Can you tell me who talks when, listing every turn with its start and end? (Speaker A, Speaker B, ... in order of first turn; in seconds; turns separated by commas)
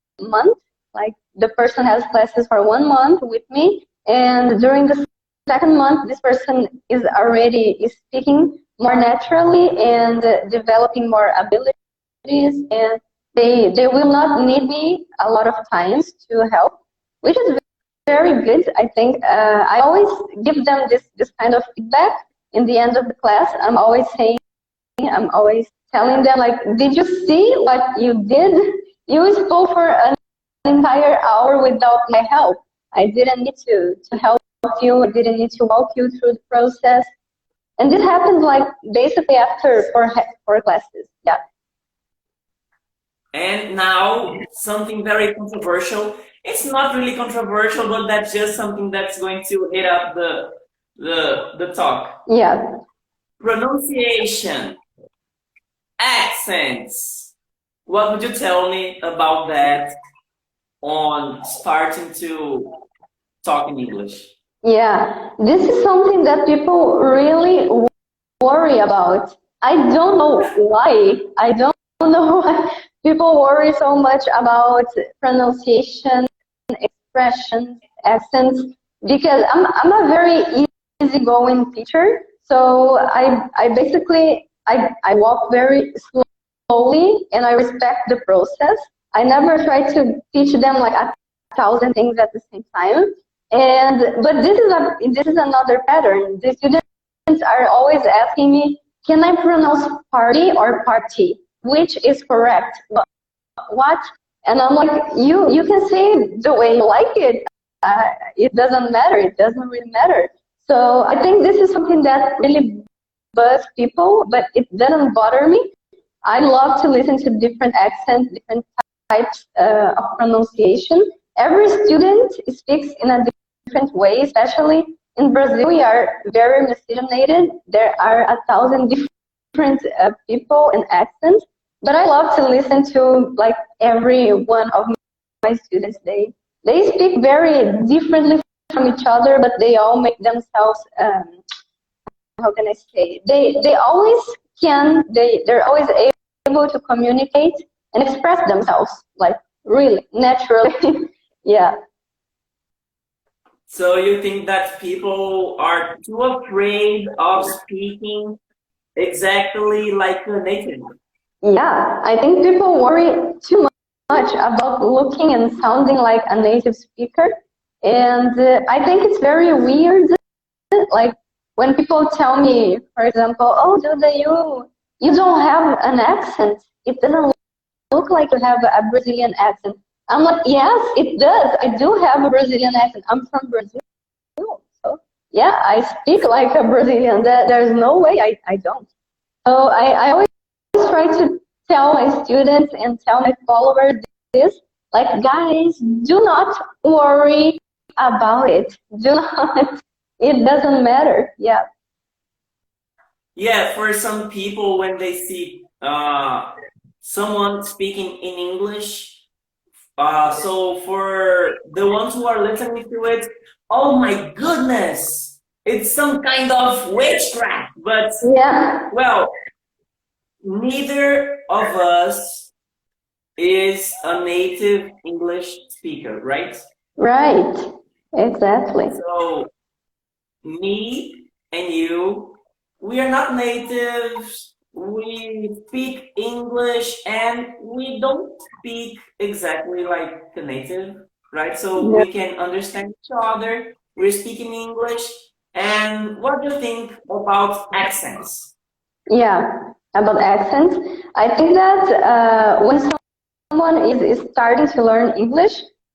Speaker A: 0.2-24.4, Speaker A: 25.0-37.1, Speaker A: 37.8-41.4, Speaker B: 43.3-52.2, Speaker A: 52.3-52.7, Speaker B: 53.4-54.8, Speaker B: 56.0-57.3, Speaker B: 57.9-59.9, Speaker B: 60.8-62.7, Speaker B: 63.4-64.3, Speaker A: 64.6-103.0, Speaker A: 103.7-115.7, Speaker A: 116.2-141.4, Speaker A: 142.4-151.7, Speaker B: 153.7-158.4, Speaker B: 158.9-160.9, Speaker A: 161.4-170.2, Speaker A: 170.7-177.3, Speaker A: 177.9-183.8, Speaker A: 184.4-188.9, Speaker A: 189.4-201.6, Speaker B: 203.3-206.5, Speaker B: 207.0-209.2, Speaker B: 210.0-218.3, Speaker A: 218.2-218.9, Speaker B: 218.9-219.3, Speaker B: 220.4-222.5, Speaker B: 223.4-226.6, Speaker A: 227.0-228.9, Speaker B: 228.9-229.5, Speaker B: 230.4-248.5, Speaker A: 241.8-242.0, Speaker A: 249.1-253.0, Speaker A: 253.5-255.7